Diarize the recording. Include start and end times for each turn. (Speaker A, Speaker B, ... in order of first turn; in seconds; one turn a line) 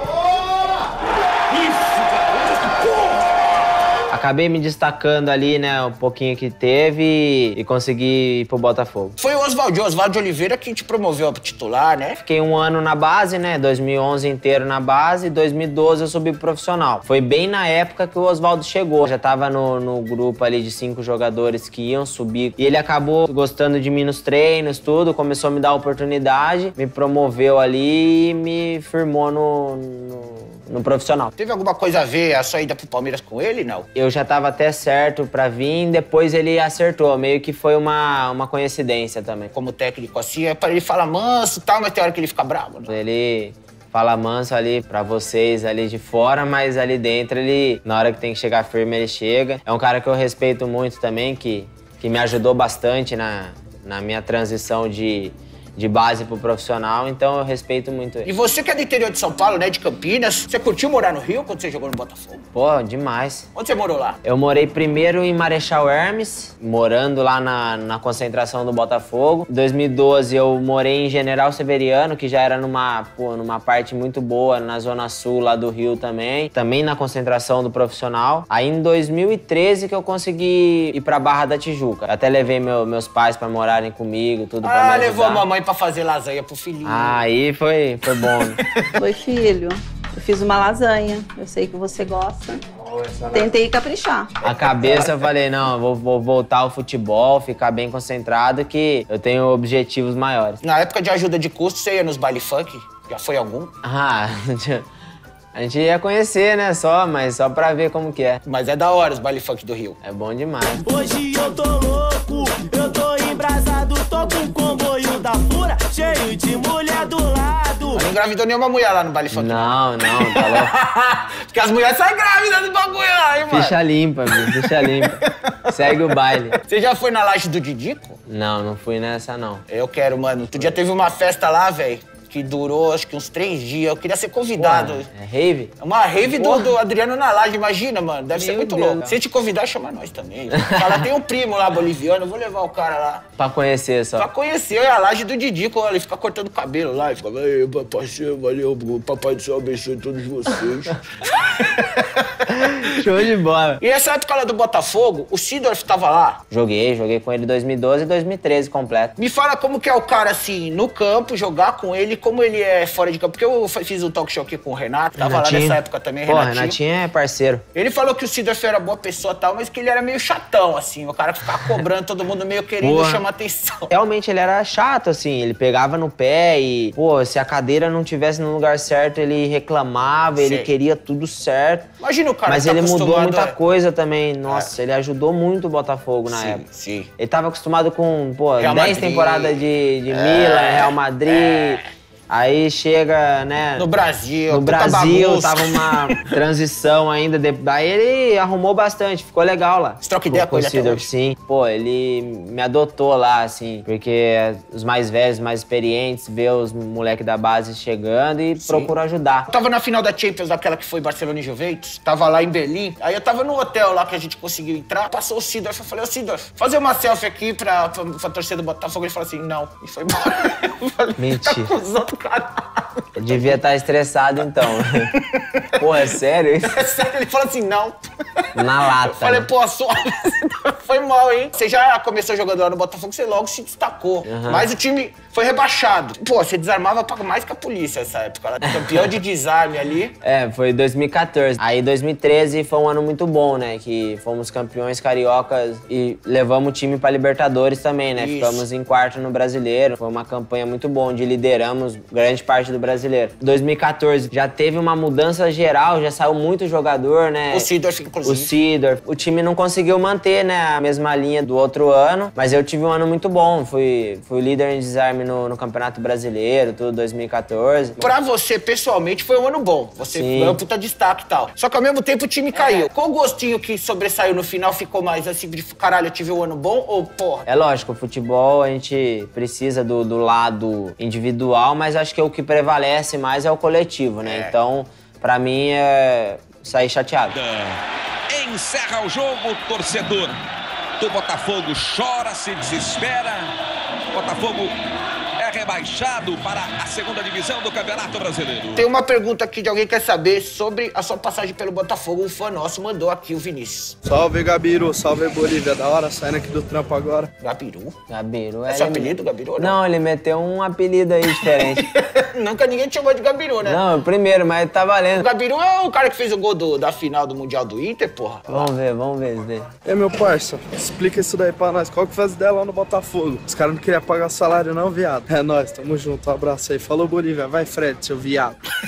Speaker A: 4.1-9.2
Speaker B: 9.2-12.2
Speaker A: 12.2-31.3
Speaker B: 31.4-33.9
Speaker A: 33.9-39.5
Speaker B: 39.5-42.9
Speaker A: 42.9-58.3
Speaker B: 58.2-62.4
Speaker A: 62.5-63.5
Speaker B: 63.5-64.2
Speaker A: 64.2-85.5
Speaker B: 84.6-87.2
Speaker A: 86.8-88.6
Speaker C: 89.0-92.6
Speaker C: 93.3-94.3
Speaker B: 94.4-95.1
Speaker A: 94.4-100.6
Speaker B: 100.6-103.7
Speaker A: 103.8-104.9
Speaker A: 105.5-108.4
Speaker B: 108.4-110.0
Speaker A: 110.0-110.8
Speaker D: 110.8-118.0
Speaker B: 117.9-123.7
Speaker A: 119.3-120.7
Speaker A: 123.5-126.6
Speaker B: 126.7-128.2
Speaker A: 128.2-129.6
Speaker B: 129.7-135.1
Speaker A: 134.6-135.7
Speaker B: 135.8-143.2
Speaker A: 136.3-136.7
Speaker A: 138.3-139.2
Speaker A: 140.6-141.0
Speaker A: 143.4-144.3
Speaker B: 144.2-152.0
Speaker A: 152.5-153.8
Speaker B: 153.8-156.4
Speaker A: 156.5-159.2
Speaker B: 159.2-166.8
Speaker A: 165.2-167.6
Speaker B: 167.7-173.9
Speaker A: 172.8-173.2
Speaker A: 173.9-181.9
Speaker B: 180.4-180.7
Speaker B: 182.0-183.6
Speaker A: 182.4-186.6
Speaker B: 186.3-187.1
Speaker A: 187.2-193.9
Speaker B: 188.6-191.8
Speaker B: 193.8-196.3
Speaker A: 194.5-209.5
Speaker B: 200.0-201.1
Speaker B: 208.6-208.9
Speaker B: 209.5-223.6
Speaker A: 221.2-221.7
Speaker A: 223.2-225.1
Speaker B: 225.3-225.6
Speaker A: 225.8-226.8
Speaker B: 226.7-228.4
Speaker A: 228.5-229.5
Speaker B: 229.1-240.2
Speaker A: 234.2-234.7
Speaker A: 238.6-239.1
Speaker A: 240.2-257.7
Speaker B: 248.2-248.6
Speaker B: 257.5-258.5
Speaker A: 258.2-268.0
Speaker B: 268.0-277.5
Speaker A: 270.1-270.6
Speaker A: 272.5-272.9
Speaker A: 277.5-287.4
Speaker B: 284.2-284.5
Speaker E: 287.3-290.4
Speaker E: 291.0-293.5
Speaker E: 294.1-294.7
Speaker E: 295.4-298.9
Speaker B: 298.7-303.9
Speaker F: 304.1-307.3
Speaker B: 307.4-307.9
Speaker A: 308.1-311.9
Speaker B: 308.7-309.7
Speaker B: 311.4-313.8
Speaker A: 313.6-315.3
Speaker B: 315.2-318.7
Speaker A: 318.5-319.7
Speaker F: 319.8-328.5